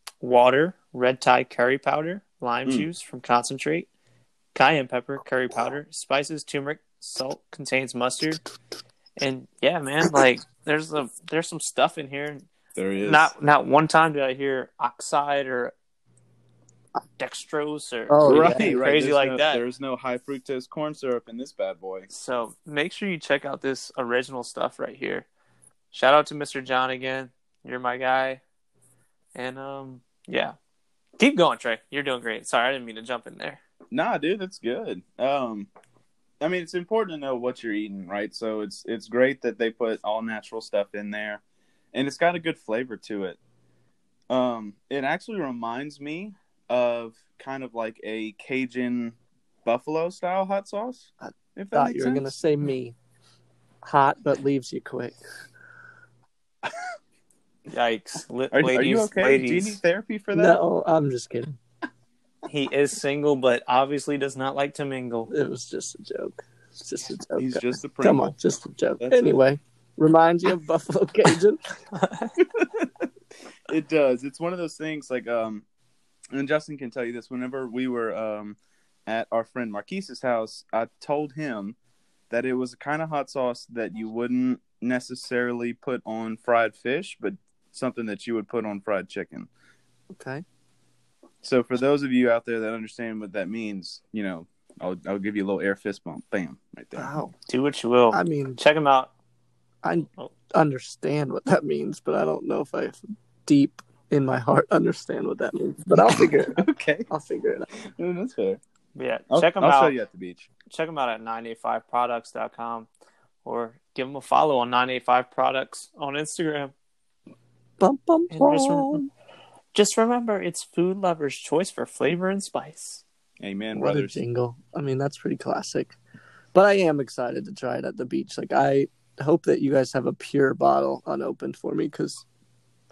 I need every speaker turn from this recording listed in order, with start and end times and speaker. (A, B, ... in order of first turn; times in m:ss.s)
0:00.2-0:03.9 A
0:04.5-0:08.4 A
0:09.2-0:12.4 A
0:12.8-0:13.3 B
0:13.0-0:15.7 A
0:17.2-0:19.6 A
0:18.1-0:18.8 C
0:18.2-0:22.1 B
0:22.1-0:25.3 A
0:25.9-0:28.4 A
0:29.3-0:30.6 A
0:31.2-0:33.6 A
0:33.9-0:35.7 B
0:36.4-0:41.4 B
0:41.9-0:43.4 B
0:44.3-0:52.3 B
0:51.2-0:53.0 C
0:53.8-0:55.2 C
0:57.7-0:59.8 A
0:58.5-1:00.6 B
1:00.3-1:01.6 C
1:02.5-1:05.3 A
1:05.3-1:11.6 C
1:07.4-1:08.3 B
1:09.0-1:09.4 B
1:11.9-1:12.3 A
1:12.5-1:12.9 B
1:13.7-1:15.6 B
1:16.3-1:21.8 B
1:22.3-1:29.5 B
1:30.1-1:30.4 C
1:31.4-1:37.1 B
1:37.0-1:37.3 C
1:37.5-1:39.1 A
1:38.1-1:38.6 C
1:39.8-1:47.7 C
1:46.6-1:47.1 B
1:47.9-1:48.6 B
1:48.9-1:49.9 A
1:49.3-1:50.5 B
1:50.7-1:52.9 A
1:53.4-1:56.7 A
1:57.8-1:59.0 C
1:58.3-1:59.0 A
1:59.7-2:03.0 A
2:03.4-2:04.2 B
2:03.8-2:06.0 C
2:06.5-2:12.2 C